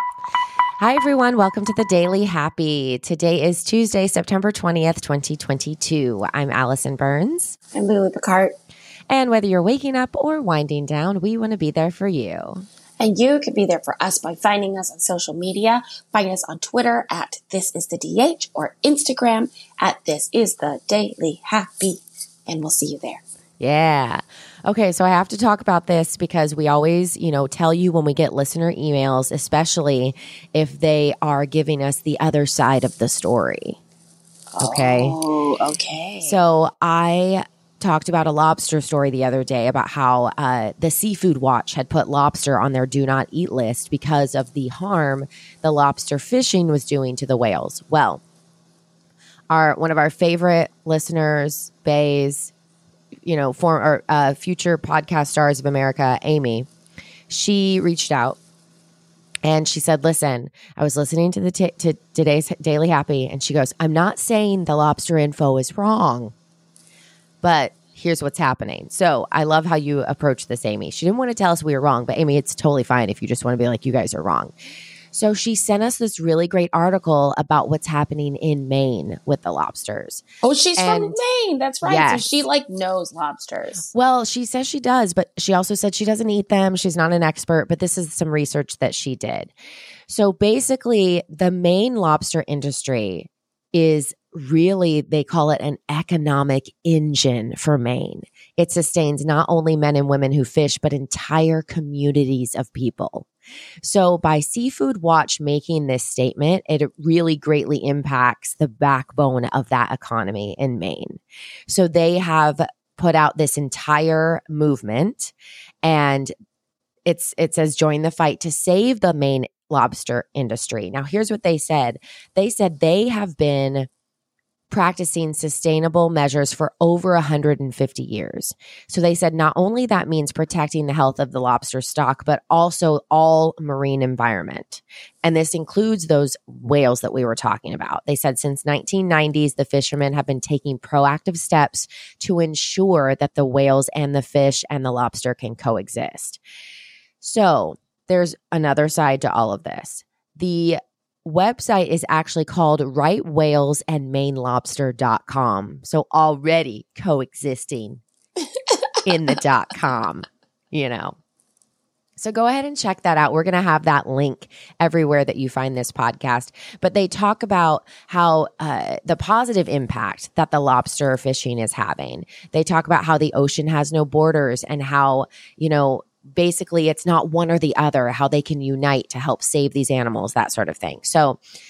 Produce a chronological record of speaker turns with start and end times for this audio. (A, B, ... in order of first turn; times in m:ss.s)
0:00.8-0:07.6 A
0:07.7-0:08.5 B
0:09.1-0:12.6 A
0:13.0-0:23.2 B
0:23.6-0:33.8 A
0:34.6-0:36.4 B
0:34.6-0:35.2 A
0:36.2-0:48.2 A
0:49.5-0:52.5 A
0:53.2-0:56.7 A
0:57.3-0:58.4 A
0:59.4-1:06.3 A
1:07.4-1:14.5 A
1:15.1-1:20.2 A
1:20.4-1:23.9 B
1:20.8-1:21.2 A
1:21.8-1:22.3 A
1:23.9-1:29.5 A
1:30.1-1:43.3 A
1:43.8-1:56.3 A
1:57.0-2:03.9 A
2:04.7-2:26.4 A
2:27.2-2:38.0 A
2:38.7-2:39.0 B
2:39.0-2:41.2 A
2:42.2-3:01.4 A